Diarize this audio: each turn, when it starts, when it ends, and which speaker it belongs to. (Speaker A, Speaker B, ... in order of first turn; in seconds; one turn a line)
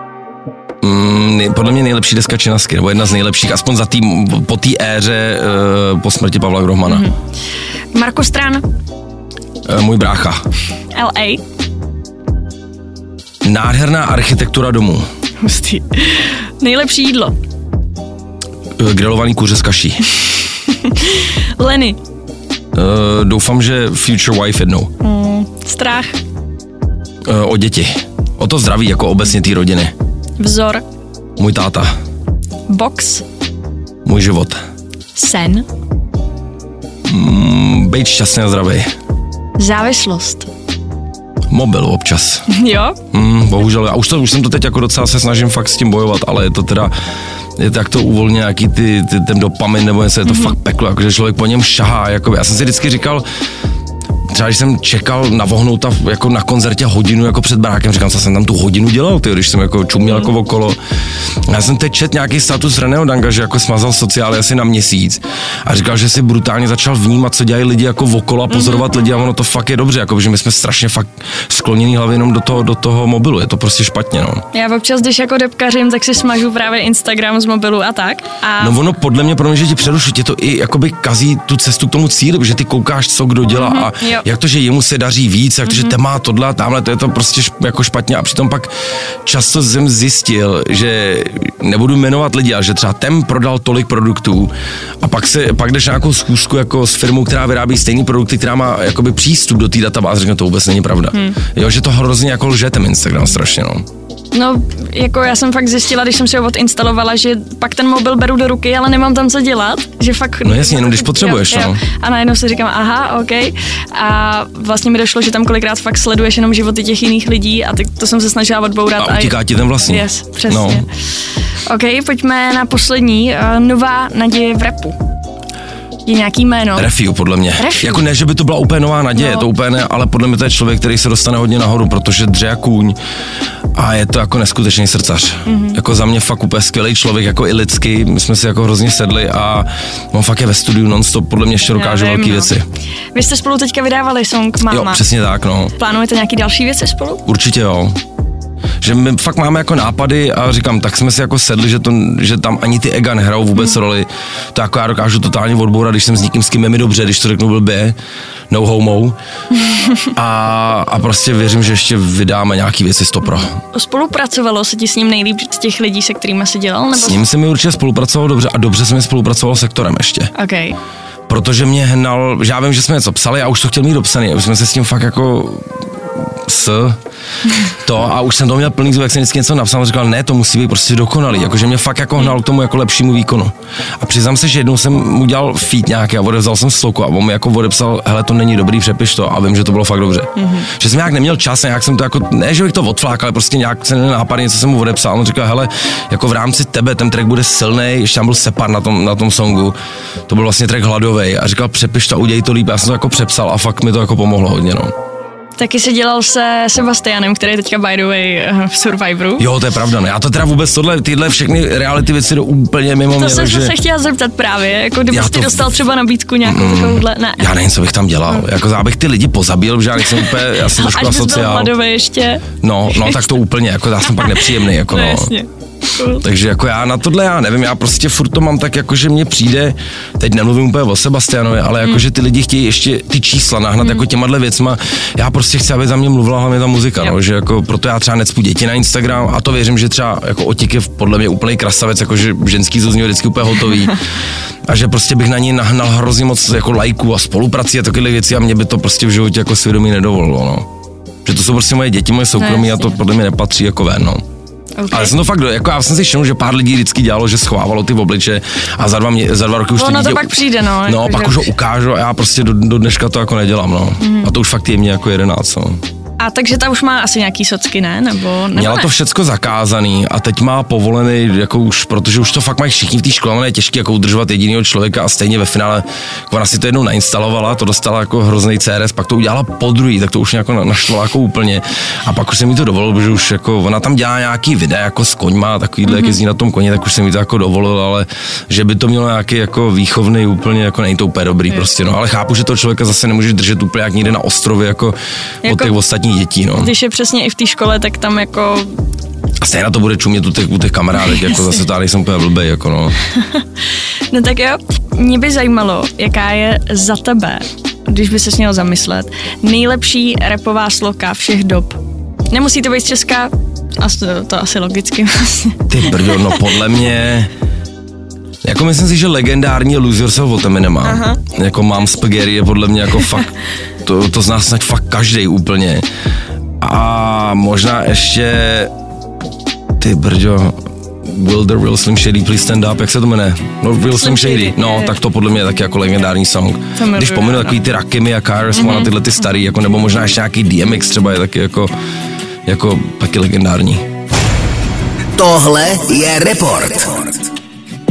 Speaker A: 0.8-7.1
Speaker B: 6.8-7.1
Speaker B: 7.9-8.6
Speaker A: 9.7-10.4
Speaker B: 10.9-11.4
Speaker A: 13.4-15.1
Speaker B: 15.4-17.3
Speaker A: 18.8-20.0
Speaker B: 20.8-22.0
Speaker A: 22.7-24.9
Speaker B: 25.0-26.1
Speaker A: 27.3-29.9
Speaker B: 30.4-30.8
Speaker A: 31.4-31.9
Speaker B: 32.7-33.2
Speaker A: 34.0-34.6
Speaker B: 35.1-35.6
Speaker A: 37.1-38.9
Speaker B: 39.6-40.5
Speaker A: 41.5-42.4
Speaker B: 42.5-43.0
Speaker A: 43.1-46.9
Speaker A: 47.6-53.2
Speaker B: 50.2-50.5
Speaker A: 54.3-60.8
Speaker B: 60.0-60.3
Speaker A: 61.5-74.4
Speaker B: 68.5-69.1
Speaker B: 74.5-78.8
Speaker A: 78.6-88.7
Speaker B: 83.5-84.2
Speaker B: 85.7-86.0
Speaker A: 89.2-103.8
Speaker B: 104.3-120.8
Speaker A: 110.4-111.8
Speaker A: 119.0-120.8
Speaker B: 121.7-125.0
Speaker B: 126.0-126.9
Speaker A: 126.8-133.0
Speaker B: 127.6-128.0
Speaker B: 129.2-129.5
Speaker A: 133.7-142.6
Speaker B: 135.5-135.8
Speaker B: 141.7-142.5
Speaker B: 143.1-145.0
Speaker A: 144.7-145.7
Speaker B: 145.8-147.2
Speaker A: 147.2-148.0
Speaker A: 148.8-157.9
Speaker A: 158.5-159.2
Speaker A: 160.1-163.5
Speaker B: 163.2-167.2
Speaker A: 166.9-170.3
Speaker B: 170.3-170.8
Speaker A: 171.3-175.6
Speaker A: 176.5-177.0
Speaker A: 177.8-199.8
Speaker B: 190.4-190.7
Speaker A: 200.3-204.9
Speaker B: 205.6-209.5
Speaker A: 209.4-213.7
Speaker B: 213.2-217.5
Speaker A: 215.1-215.7
Speaker A: 216.4-221.7
Speaker B: 220.0-223.2
Speaker A: 222.6-225.3
Speaker B: 224.1-226.2
Speaker A: 226.2-244.0
Speaker A: 244.7-250.7
Speaker A: 251.2-254.2
Speaker B: 252.3-253.0
Speaker B: 254.8-255.1
Speaker A: 254.9-260.3
Speaker B: 259.8-261.5
Speaker A: 260.8-265.8
Speaker B: 264.0-264.3
Speaker B: 266.2-268.9
Speaker A: 268.5-296.7
Speaker B: 285.9-286.1
Speaker B: 295.4-295.7
Speaker B: 296.6-298.7
Speaker A: 299.4-302.9
Speaker B: 301.0-301.6
Speaker B: 304.1-311.8
Speaker B: 312.3-315.7
Speaker A: 315.7-317.3
Speaker A: 318.4-323.3
Speaker B: 320.8-321.2
Speaker A: 323.8-325.9
Speaker A: 326.6-328.7
Speaker A: 329.8-330.5
Speaker A: 331.0-341.7
Speaker B: 333.9-334.9
Speaker B: 336.8-337.6
Speaker B: 338.5-338.9
Speaker A: 342.4-343.8
Speaker C: 345.2-347.3